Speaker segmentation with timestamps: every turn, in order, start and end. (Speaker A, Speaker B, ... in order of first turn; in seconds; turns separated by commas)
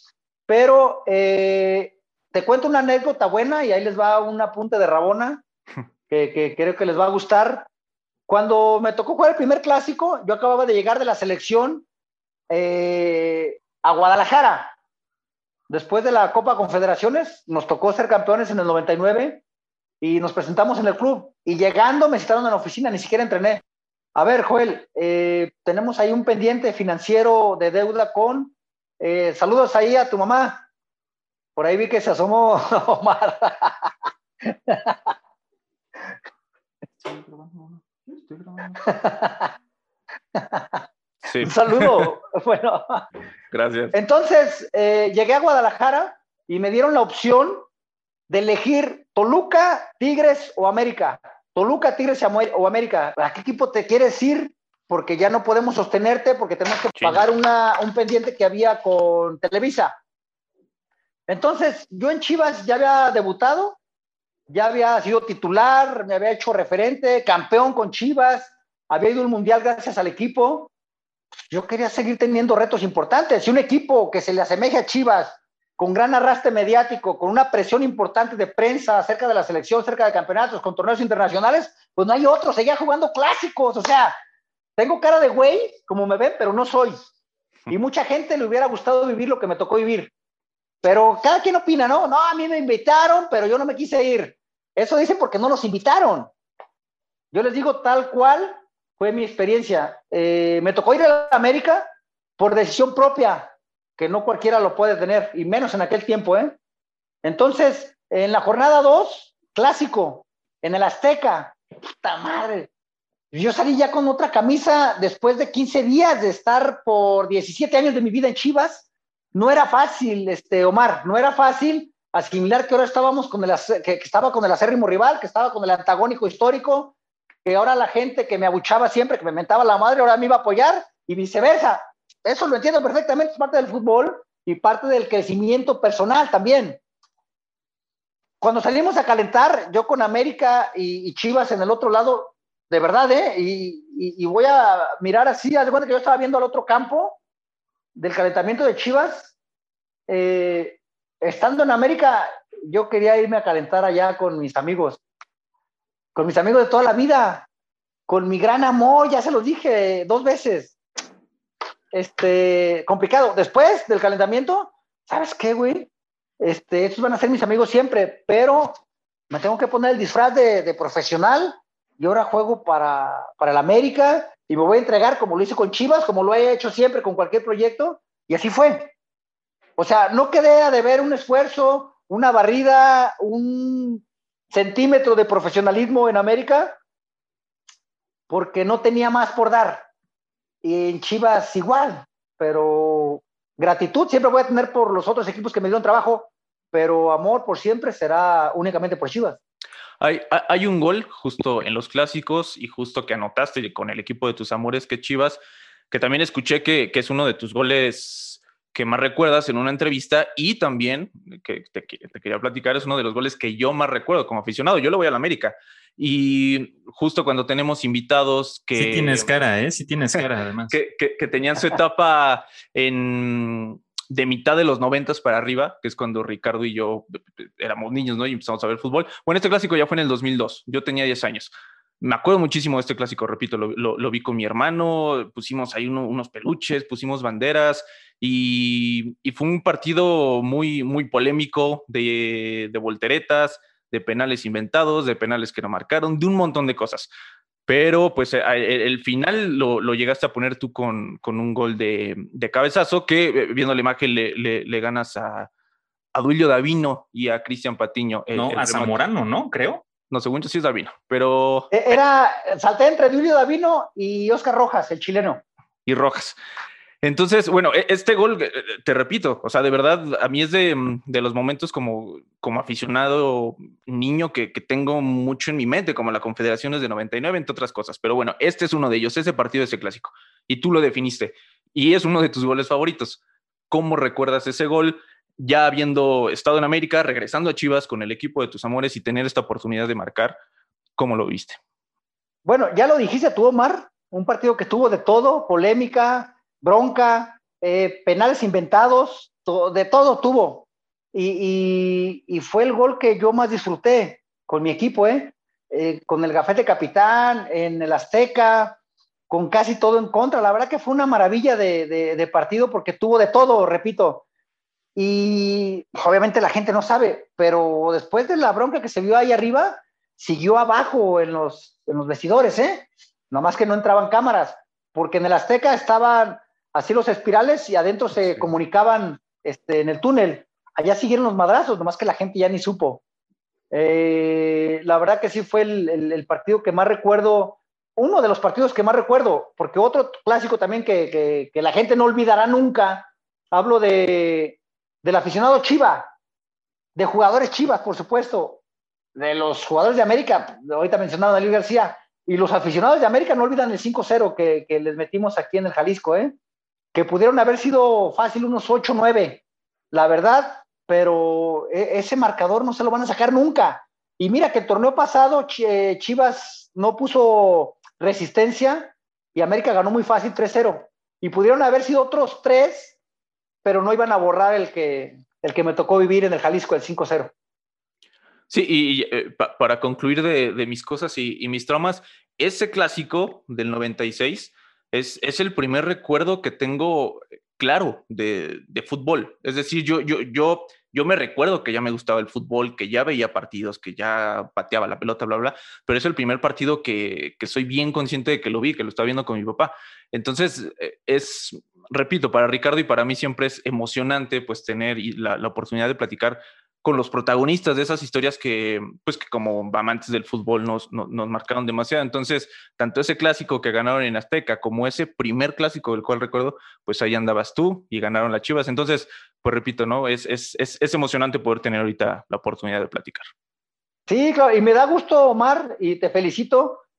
Speaker A: 0.5-5.4, Speaker A: 6.1-7.7, Speaker A: 8.3-11.8, Speaker A: 12.5-14.8, Speaker A: 15.7-19.4, Speaker A: 20.0-23.6, Speaker A: 24.1-30.6, Speaker A: 31.6-33.9, Speaker A: 34.5-35.1, Speaker B: 37.0-38.8, Speaker A: 38.8-39.5, Speaker A: 40.4-40.8, Speaker B: 41.2-42.1, Speaker A: 41.4-43.1, Speaker B: 43.5-44.0, Speaker A: 43.9-47.6, Speaker A: 48.3-60.0, Speaker B: 57.0-57.2, Speaker A: 61.3-63.8, Speaker A: 64.5-70.7, Speaker A: 71.5-84.2, Speaker A: 84.8-87.0, Speaker A: 87.7-90.1, Speaker A: 90.8-96.3, Speaker A: 97.3-106.6, Speaker A: 107.2-112.7, Speaker A: 113.3-126.9, Speaker A: 127.5-136.8, Speaker A: 138.4-147.2, Speaker A: 147.9-149.3, Speaker A: 150.1-155.0, Speaker A: 156.2-157.5, Speaker A: 158.1-160.8, Speaker A: 161.9-168.8, Speaker A: 169.3-178.9, Speaker A: 179.8-186.8, Speaker A: 188.3-189.9, Speaker A: 190.6-199.4, Speaker B: 200.0-219.3, Speaker C: 218.8-220.8, Speaker B: 220.2-247.1, Speaker B: 247.7-255.5, Speaker B: 256.1-259.0, Speaker C: 258.4-259.8, Speaker B: 260.1-262.0, Speaker A: 261.7-265.4, Speaker B: 265.9-266.4, Speaker B: 267.0-290.4, Speaker B: 291.0-291.6, Speaker A: 292.4-308.8, Speaker A: 309.3-314.2, Speaker A: 315.0-333.0, Speaker A: 333.7-346.1, Speaker A: 347.0-348.6, Speaker A: 349.1-356.3, Speaker A: 356.9-373.0, Speaker A: 373.6-377.3, Speaker B: 378.5-423.3, Speaker A: 424.1-426.8